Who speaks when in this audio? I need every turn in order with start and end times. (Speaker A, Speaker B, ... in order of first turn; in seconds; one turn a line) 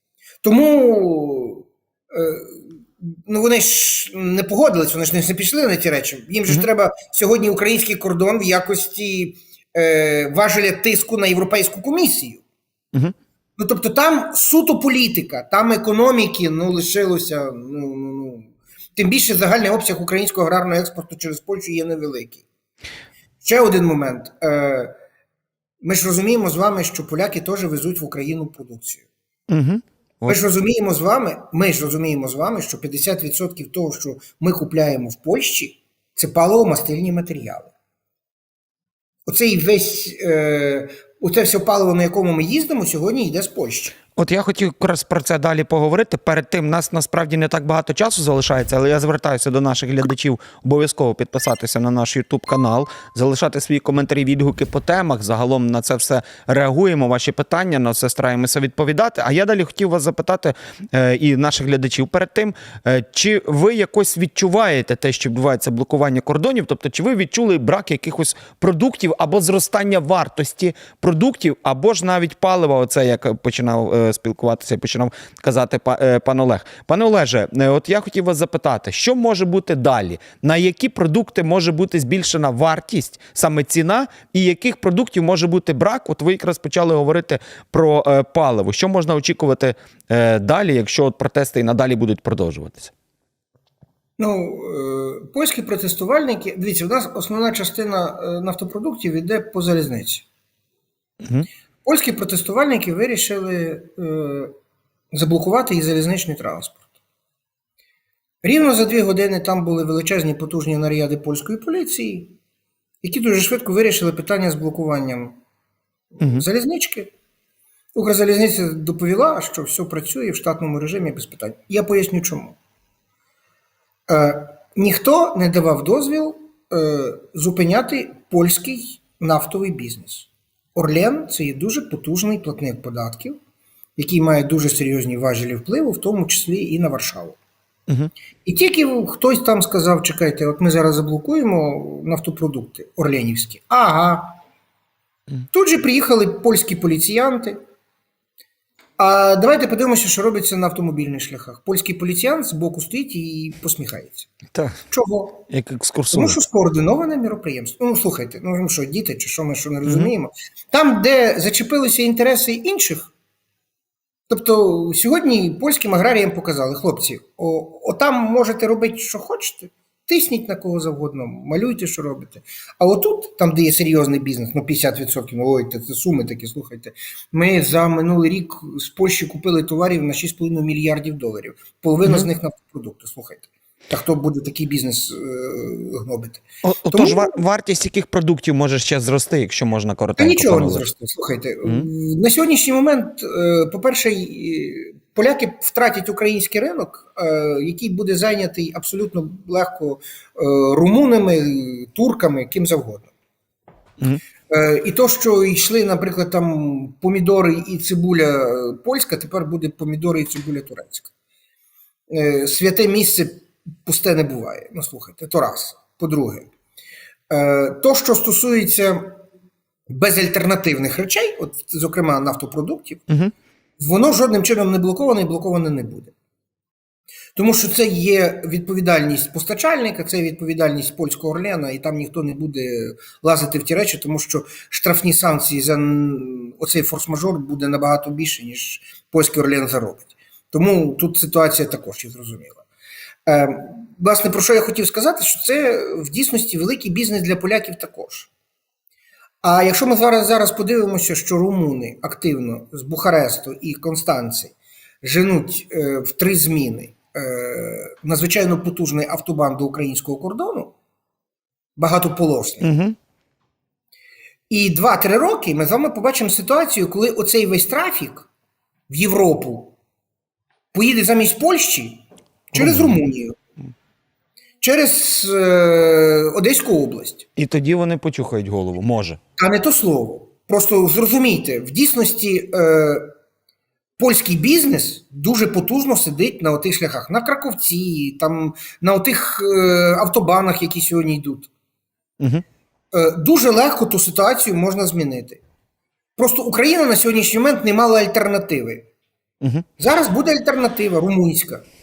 Speaker A: 0.4-12.4
Speaker A: 13.6-22.4
Speaker A: 23.4-24.9
Speaker A: 25.8-29.1
Speaker B: 29.5-30.4
Speaker A: 30.3-37.7
Speaker A: 39.3-44.0
Speaker B: 44.2-92.9
Speaker A: 94.2-100.3
Speaker A: 101.8-104.5
Speaker A: 105.1-106.8
Speaker A: 108.4-112.4
Speaker A: 113.0-115.4
Speaker A: 116.2-117.1
Speaker A: 117.9-122.6
Speaker A: 124.1-133.4
Speaker A: 134.0-137.4
Speaker A: 138.4-144.4
Speaker A: 145.5-147.6
Speaker A: 149.0-154.3
Speaker B: 154.5-154.8
Speaker A: 154.9-155.4
Speaker B: 155.5-156.4
Speaker A: 156.1-163.1
Speaker A: 164.3-187.4
Speaker B: 186.6-190.9
Speaker A: 190.2-203.1
Speaker A: 204.5-211.1
Speaker A: 212.1-216.5
Speaker A: 217.3-219.2
Speaker A: 219.9-223.1
Speaker A: 223.8-226.1
Speaker A: 227.3-242.6
Speaker A: 243.3-248.3
Speaker A: 249.4-260.7
Speaker A: 261.8-262.6
Speaker B: 262.6-262.9
Speaker A: 264.5-268.3
Speaker A: 268.9-269.8
Speaker A: 270.7-273.4
Speaker B: 272.6-273.0
Speaker A: 274.6-277.3
Speaker B: 277.4-279.2
Speaker A: 279.4-283.1
Speaker A: 284.0-291.5
Speaker A: 292.9-295.4
Speaker A: 296.2-298.9
Speaker A: 299.8-301.6